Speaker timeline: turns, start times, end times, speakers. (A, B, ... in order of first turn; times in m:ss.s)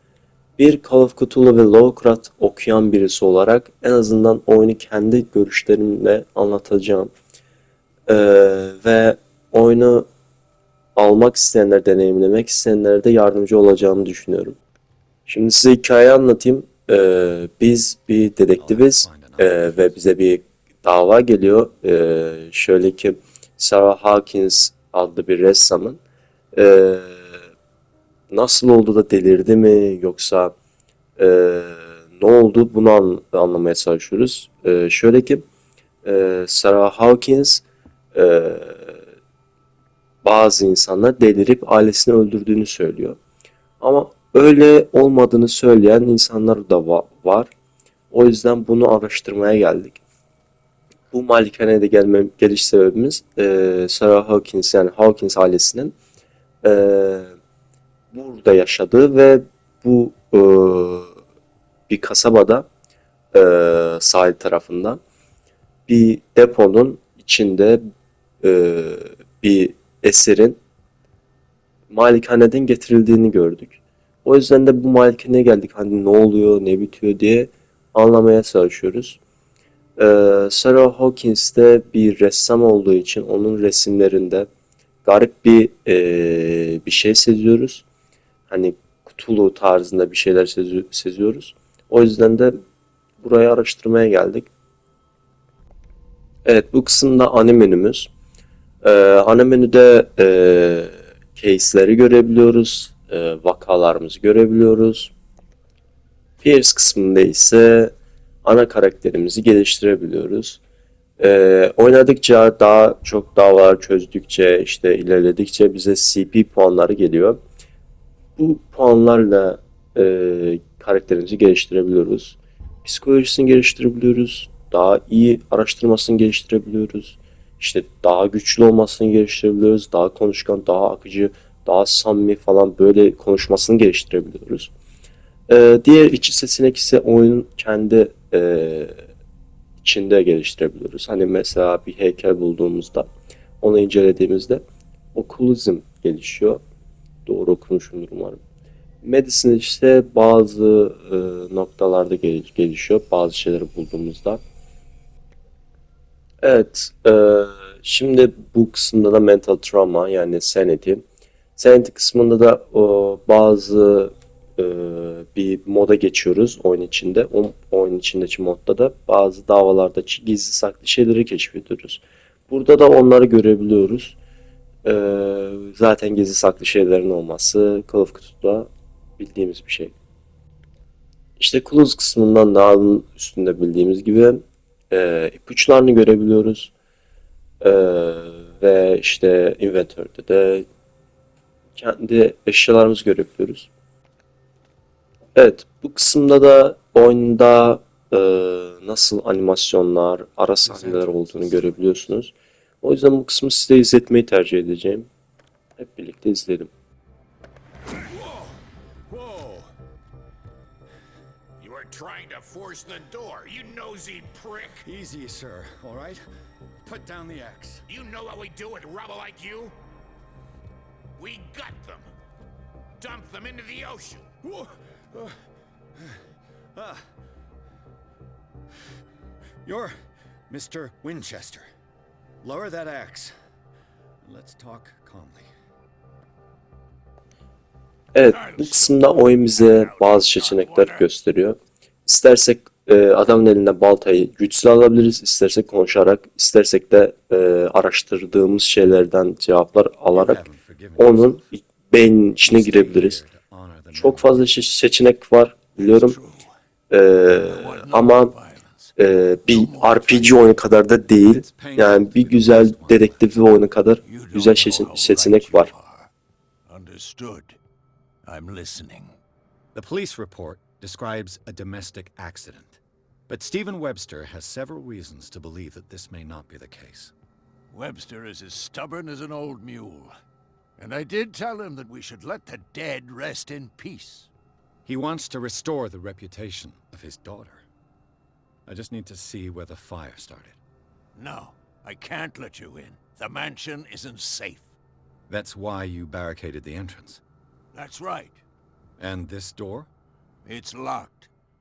0:00.6-0:07.1 A
0:08.1-0:10.1 A
0:11.0-0:14.6 A
0:15.3-0:26.0 A
0:18.6-0:20.0 B
0:26.6-0:27.4 A
0:28.3-0:30.5 A
0:31.2-0:35.4 A
0:36.0-0:39.0 A
0:40.2-0:43.2 A
0:43.8-0:47.5 A
0:48.1-0:50.0 A
0:51.1-0:56.0 A
0:56.6-0:57.3 A
0:58.1-1:01.1 A
1:01.9-1:02.7 A
1:03.3-1:05.0 A
1:05.9-1:07.8 A
1:08.4-1:10.6 A
1:11.9-1:19.2 A
1:20.0-1:24.5 A
1:25.0-1:27.8 A
1:28.5-1:32.6 A
1:33.2-1:34.5 A
1:36.4-1:38.1 A
1:38.8-1:45.1 A
1:46.4-1:47.9 A
1:48.4-1:50.6 A
1:51.2-1:57.4 A
1:58.4-2:14.7 A
2:15.5-2:19.0 A
2:19.8-2:23.1 A
2:23.6-2:24.6 A
2:25.2-2:26.6 A
2:27.2-2:28.4 A
2:29.0-2:34.4 A
2:36.4-2:41.0 A
2:41.6-2:54.2 A
2:54.8-2:59.9 A
3:01.4-3:06.7 A
3:07.6-3:10.7 A
3:11.8-3:13.7 A
3:15.3-3:25.1 A
3:20.7-3:22.0 C
3:25.8-3:26.7 A
3:28.0-3:28.6 B
3:29.1-3:29.7 B
3:31.6-3:34.8 D
3:34.8-3:36.2 B
3:36.8-3:37.8 B
3:37.9-3:39.8 D
3:41.2-3:42.1 D
3:43.0-3:44.3 D
3:44.4-3:45.4 B
3:46.0-3:46.2 B
3:46.7-3:47.0 B
3:49.6-3:49.9 B
3:50.5-3:51.7 B
3:52.4-3:53.3 B
3:54.2-3:55.5 B
3:58.1-4:10.4 A
3:58.2-4:01.1 C
4:10.1-4:11.5 B
4:11.0-4:13.2 A
4:12.3-4:14.8 B
4:13.9-4:16.2 A
4:15.8-4:16.5 C
4:16.9-4:18.4 A
4:17.3-4:18.9 C
4:19.0-4:25.7 A
4:19.5-4:20.5 C
4:21.2-4:23.3 B
4:24.0-4:26.1 C
4:26.7-4:27.6 C
4:28.2-4:29.2 C
4:29.7-4:37.1 B
4:37.7-4:40.1 C
4:40.8-4:44.3 C
4:44.9-4:47.6 B
4:48.7-4:50.6 B
4:51.2-4:54.7 C
4:55.3-4:57.2 B
4:57.7-4:58.4 C
4:59.0-4:59.9 B
5:00.4-5:01.3 C